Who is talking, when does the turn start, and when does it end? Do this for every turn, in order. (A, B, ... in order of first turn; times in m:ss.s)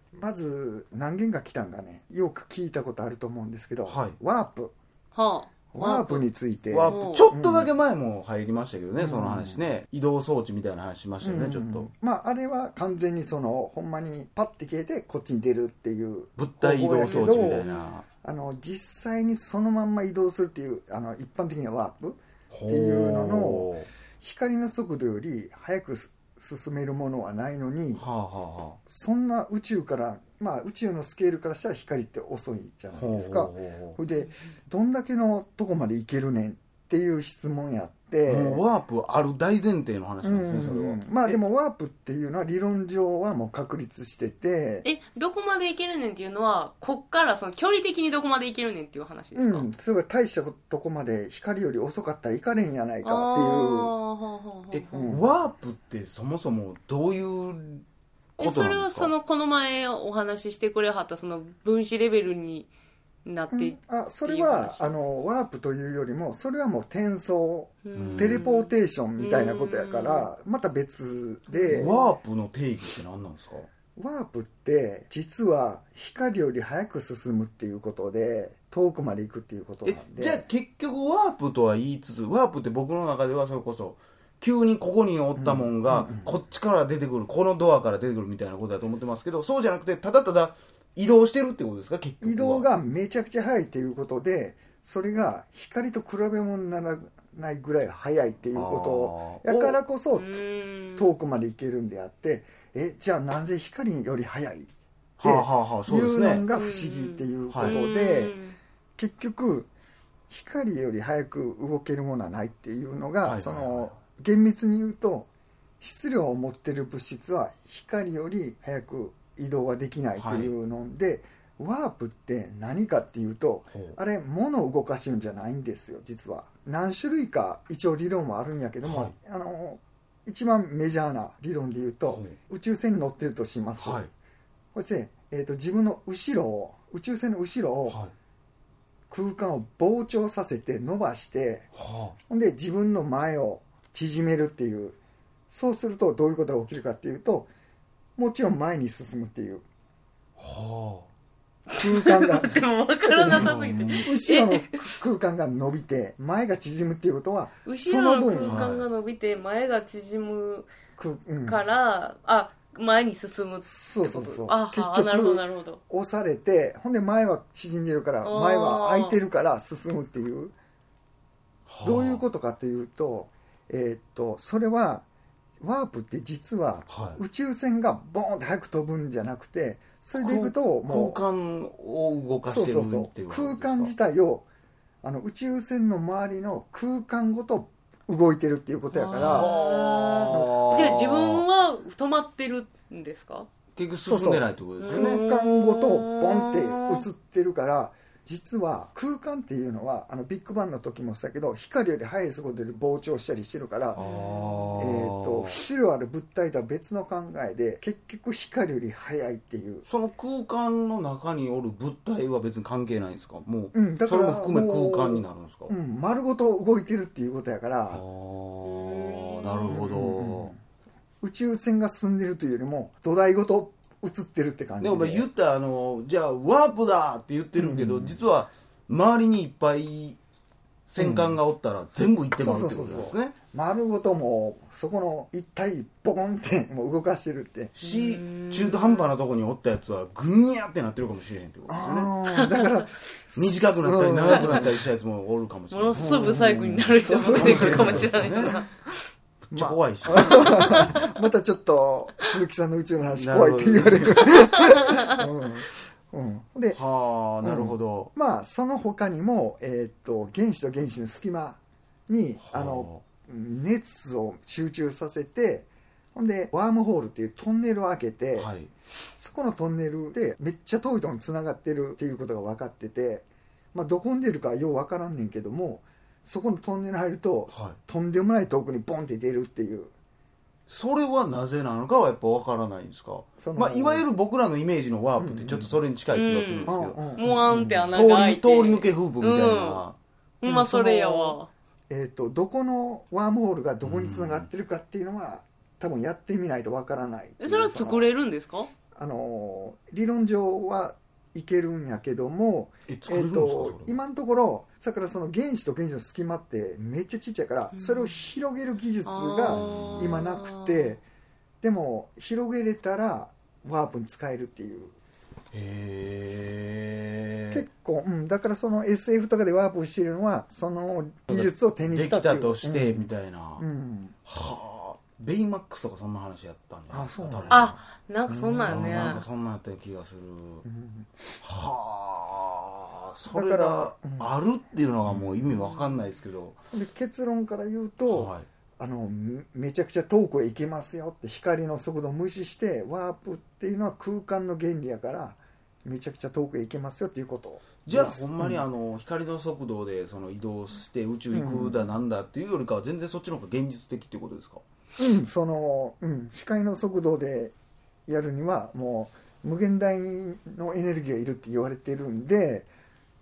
0:00.2-0:04.7 A
0:03.8-0:04.2 B
0:05.1-0:06.2 C
0:05.7-0:07.7 A
0:06.7-0:11.9 B
0:06.9-0:07.2 C
0:09.0-0:09.6 A
0:11.2-0:17.7 A
0:16.4-0:18.0 B
0:17.0-0:18.0 C
0:18.2-0:28.0 A
0:22.5-0:23.9 B
0:27.9-0:28.8 B
0:28.8-0:38.6 A
0:32.9-0:34.0 B
0:38.2-0:41.4 B
0:40.2-0:44.8 A
0:44.8-0:49.7 C
0:49.3-0:53.9 A
0:53.0-0:55.1 C
0:54.7-0:57.8 B
0:54.9-0:55.3 A
0:58.4-0:59.1 B
0:58.4-1:02.7 C
1:03.2-1:05.0 C
1:03.5-1:11.9 A
1:07.8-1:10.3 C
1:07.9-1:08.4 B
1:11.5-1:12.1 C
1:11.7-1:13.7 B
1:14.0-1:20.4 A
1:19.8-1:32.7 B
1:25.4-1:26.3 A
1:32.2-1:40.4 A
1:38.5-1:39.8 B
1:40.1-1:41.2 C
1:41.0-1:44.7 A
1:45.2-1:46.4 B
1:45.2-1:48.4 A
1:46.5-1:48.6 C
1:47.5-1:47.8 B
1:49.0-1:49.7 A
1:50.3-1:55.3 A
1:53.2-1:53.9 B
1:55.8-2:14.1 A
2:00.2-2:00.5 B
2:03.7-2:04.0 B
2:08.8-2:09.1 B
2:12.1-2:12.4 B
2:13.8-2:14.1 B
2:14.7-2:18.0 A
2:17.9-2:18.1 B
2:19.1-2:21.7 A
2:21.7-2:22.2 B
2:22.3-2:25.0 A
2:25.5-2:27.5 A
2:28.2-2:29.6 A
2:30.4-2:31.1 B
2:31.7-2:38.6 A
2:32.0-2:34.8 C
2:33.3-2:34.0 B
2:37.6-2:40.7 C
2:38.4-2:38.8 B
2:41.0-2:41.6 A
2:41.4-2:45.8 C
2:43.6-2:50.5 A
2:48.2-2:49.2 C
2:51.7-2:52.2 B
2:51.8-2:55.0 A
2:55.6-3:01.2 A
2:56.9-2:57.2 B
3:00.1-3:03.9 B
3:02.5-3:04.5 A
3:05.0-3:09.5 A
3:08.9-3:13.5 C
3:09.1-3:11.4 B
3:10.3-3:11.0 A
3:13.8-3:15.2 B
3:14.0-3:24.0 A
3:14.8-3:17.0 C
3:24.0-3:25.6 B
3:24.0-3:24.8 C
3:24.8-3:29.8 A
3:29.8-3:35.7 B
3:33.7-3:38.0 A
3:37.9-3:40.5 B
3:38.6-3:39.7 C
3:39.7-3:40.6 A
3:41.2-3:45.3 A
3:44.8-3:50.2 B
3:47.6-3:48.2 A
3:50.9-3:53.4 B
3:51.0-3:51.4 A
3:52.4-3:57.7 A
3:57.7-4:02.5 B
3:57.8-3:59.1 C
4:01.7-4:04.8 A
4:03.3-4:06.5 B
4:05.7-4:08.7 C
4:06.0-4:08.6 A
4:07.3-4:08.6 B
4:09.5-4:10.9 B
4:09.5-4:16.8 A
4:13.1-4:14.4 B
4:16.7-4:18.1 B
4:17.4-4:28.5 A
4:22.4-4:23.0 B
4:28.4-4:28.7 B
4:29.2-4:39.9 A
4:37.5-4:37.8 B
4:40.7-4:47.3 B
4:43.4-4:44.0 A
4:45.2-4:45.8 A
4:46.1-4:49.8 C
4:46.7-4:47.9 A
4:47.9-4:50.0 B
4:50.4-4:51.5 C
4:50.4-4:51.4 A
4:51.9-4:58.1 A
4:53.8-4:54.5 B
4:57.4-4:58.7 C
4:58.9-5:11.0 A
5:02.9-5:04.0 B
5:07.7-5:08.2 C
5:09.0-5:10.9 C
5:09.5-5:10.4 B
5:11.6-5:14.9 A
5:15.5-5:17.6 B
5:17.5-5:24.2 A
5:21.3-5:23.6 B
5:24.2-5:27.7 B
5:26.9-5:29.2 A
5:27.5-5:29.2 C
5:28.7-5:30.6 B
5:30.6-5:31.1 A
5:31.4-5:36.6 B
5:33.3-5:34.3 A
5:35.1-5:35.8 A
5:36.7-5:48.6 A
5:38.1-5:38.4 B
5:47.8-5:54.6 B
5:51.3-5:51.8 A
5:55.0-5:57.5 A
5:58.1-6:02.7 A